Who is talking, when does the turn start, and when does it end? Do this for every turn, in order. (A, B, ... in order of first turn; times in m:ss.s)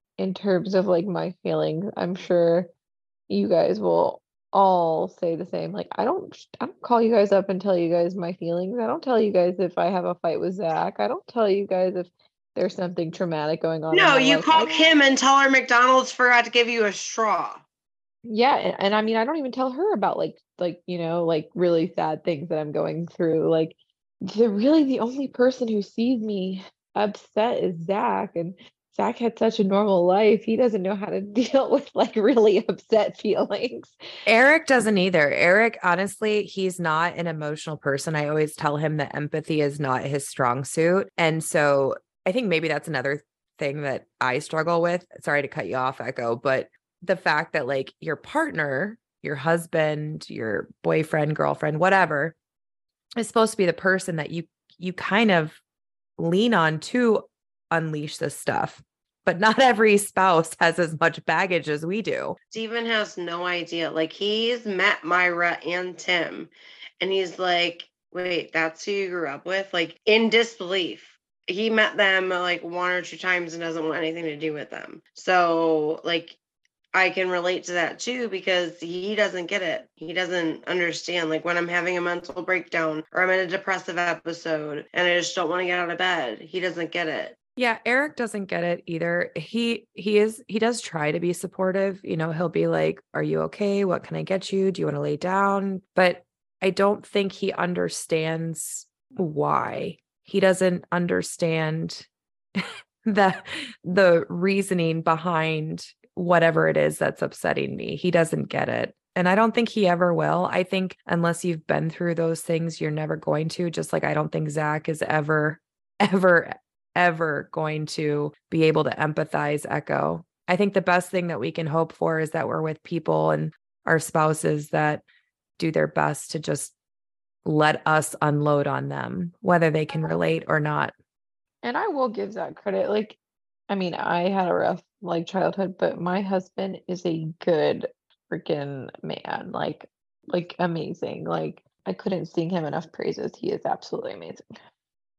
0:00.2-0:02.7 A
0:03.3-0:14.9 A
0:13.9-0:17.6 B
0:18.2-0:33.9 A
0:34.2-0:52.3 C
0:53.2-0:55.6 C
0:56.2-1:02.4 C
1:02.5-1:06.5 B
1:07.0-1:16.4 B
1:16.9-1:27.3 B
1:27.6-2:05.0 C
2:05.6-2:06.7 C
2:07.4-2:10.9 C
2:11.6-2:13.2 A
2:13.7-2:24.4 A